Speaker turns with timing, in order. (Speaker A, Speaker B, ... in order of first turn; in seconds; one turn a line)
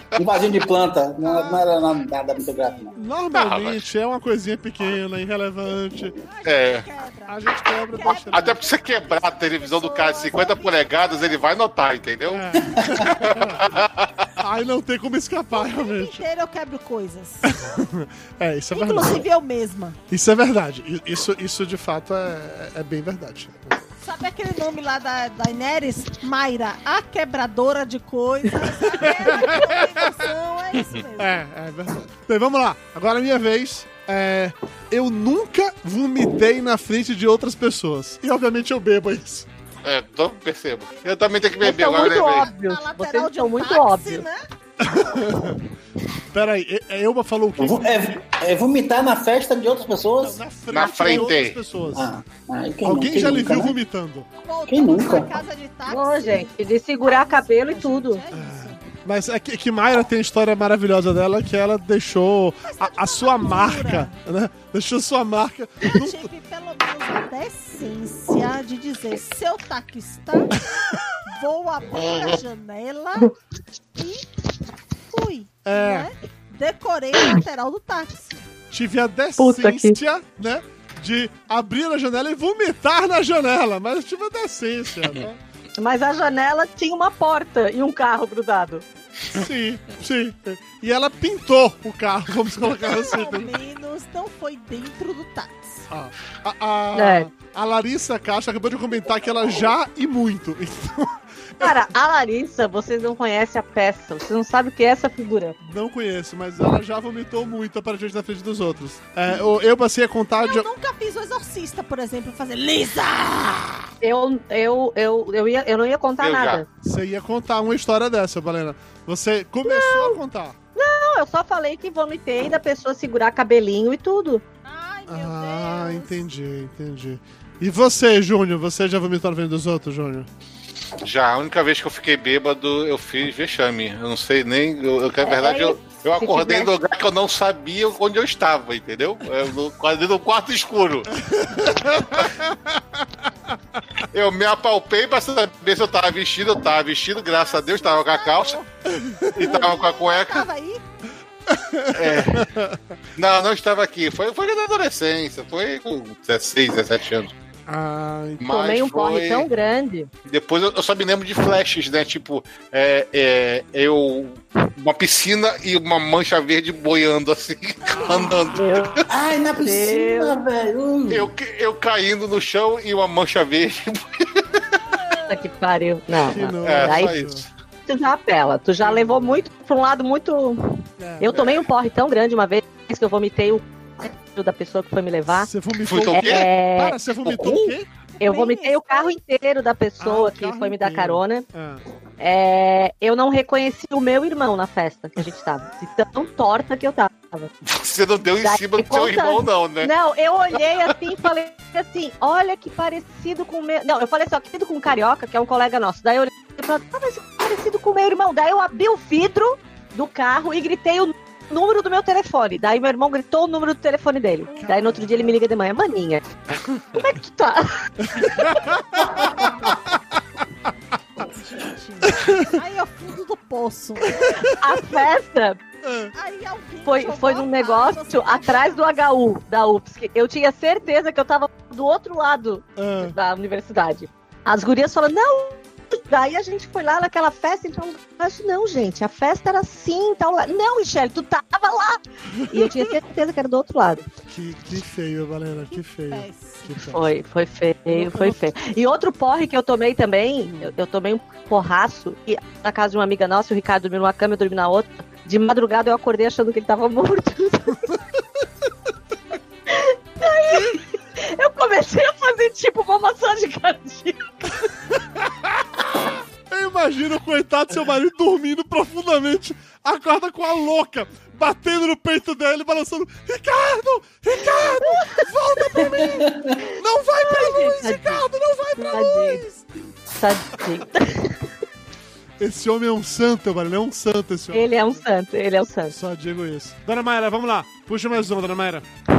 Speaker A: 0.1-2.9
Speaker B: 1.2-1.8
Speaker B: 2.3-3.2
Speaker C: 3.0-6.2
Speaker D: 3.3-3.8
Speaker B: 6.2-11.6
Speaker D: 6.4-6.8
Speaker C: 7.3-8.6
Speaker D: 8.1-12.4
Speaker C: 12.3-13.7
Speaker A: 12.6-13.1
Speaker D: 13.0-14.3
Speaker C: 14.4-16.2
Speaker B: 15.5-17.5
Speaker C: 17.4-19.2
Speaker B: 18.7-20.0
Speaker C: 20.1-23.8
Speaker B: 24.0-31.4
Speaker C: 28.9-30.2
Speaker C: 31.2-39.5
Speaker D: 39.8-42.5
Speaker B: 40.9-44.4
Speaker E: 41.6-44.2
Speaker C: 44.8-45.6
Speaker C: 46.3-48.1
Speaker A: 47.6-51.2
Speaker C: 50.2-52.1
Speaker D: 50.7-51.6
Speaker A: 51.9-53.8
Speaker C: 52.8-54.3
Speaker B: 54.4-58.8
Speaker A: 54.7-55.4
Speaker E: 55.9-58.2
Speaker C: 58.3-66.3
Speaker B: 62.6-64.1
Speaker B: 65.9-70.7
Speaker B: 71.2-73.3
Speaker B: 74.0-74.2
Speaker B: 75.1-78.4
Speaker C: 75.7-76.1
Speaker C: 78.7-85.4
Speaker E: 79.4-80.0
Speaker E: 85.8-88.8
Speaker C: 89.3-93.5
Speaker B: 92.8-95.8
Speaker C: 95.9-101.8
Speaker E: 96.9-97.3
Speaker E: 101.6-105.6
Speaker C: 105.6-110.7
Speaker B: 110.4-113.9
Speaker E: 114.0-116.7
Speaker D: 116.2-116.6
Speaker C: 116.8-120.5
Speaker E: 119.6-120.2
Speaker E: 120.8-124.4
Speaker B: 124.6-126.2
Speaker C: 125.1-130.3
Speaker D: 131.0-141.1
Speaker E: 135.2-136.7
Speaker C: 141.1-143.3
Speaker D: 144.1-148.6
Speaker B: 147.3-148.7
Speaker C: 148.8-149.5
Speaker D: 149.3-150.5
Speaker B: 149.3-150.8
Speaker C: 151.5-152.8
Speaker D: 151.9-152.5
Speaker D: 153.2-157.3
Speaker C: 157.7-158.4
Speaker D: 158.4-159.5
Speaker E: 158.4-160.1
Speaker D: 160.2-169.1
Speaker B: 167.8-168.5
Speaker E: 168.5-169.0
Speaker A: 169.1-171.3
Speaker E: 169.6-170.3
Speaker D: 171.1-174.6
Speaker E: 175.3-177.1
Speaker C: 176.1-177.4
Speaker D: 176.6-177.5
Speaker E: 177.9-185.5
Speaker C: 178.8-179.4
Speaker C: 181.0-181.4
Speaker C: 185.3-187.9
Speaker D: 185.8-186.5
Speaker E: 186.1-191.4
Speaker D: 187.2-187.5
Speaker B: 188.2-189.1
Speaker C: 190.0-191.8
Speaker E: 192.2-197.5
Speaker D: 197.6-199.9
Speaker E: 198.4-216.2
Speaker C: 214.5-215.4
Speaker E: 216.9-218.6
Speaker C: 218.0-220.0
Speaker B: 221.2-224.5
Speaker C: 222.1-222.5
Speaker C: 224.1-224.6
Speaker E: 224.5-225.6
Speaker C: 225.8-226.1
Speaker B: 226.1-229.0
Speaker E: 226.8-244.1
Speaker C: 232.8-233.1
Speaker C: 242.3-242.9
Speaker C: 244.3-247.1
Speaker B: 245.7-246.8
Speaker E: 246.8-258.0
Speaker C: 247.9-248.4
Speaker E: 259.7-264.6
Speaker C: 265.0-265.8
Speaker C: 266.5-279.6
Speaker E: 274.8-275.2
Speaker A: 276.1-276.6
Speaker E: 277.2-278.2
Speaker E: 278.8-279.4
Speaker E: 280.1-281.4
Speaker C: 282.4-285.0
Speaker E: 284.5-285.9
Speaker C: 285.9-288.9